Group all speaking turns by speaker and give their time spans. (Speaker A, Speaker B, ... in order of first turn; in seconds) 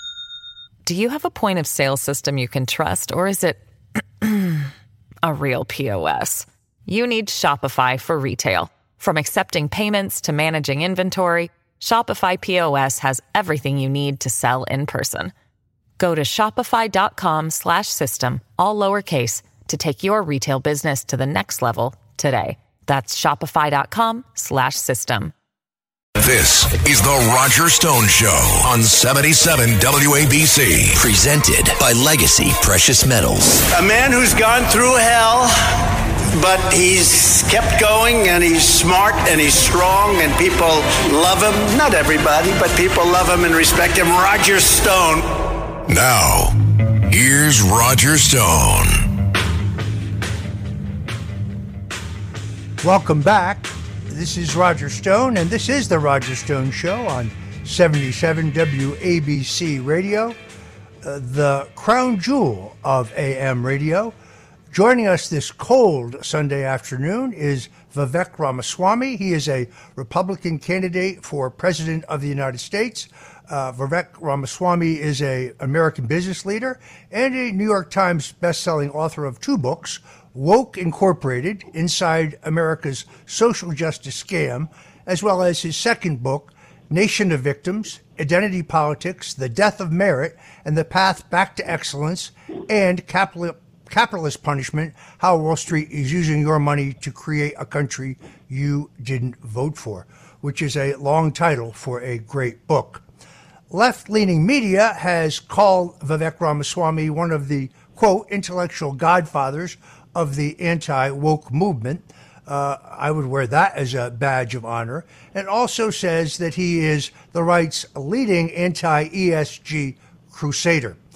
Speaker A: 0.8-3.6, 4.2-4.7, 5.2-15.3, 16.0-25.3
Speaker B: 26.2-31.0, 45.9-46.5, 47.1-49.0
Speaker C: 30.9-33.6
Speaker D: 33.7-45.5
Speaker E: 52.8-60.4, 61.0-64.1, 64.7-103.0, 103.7-121.0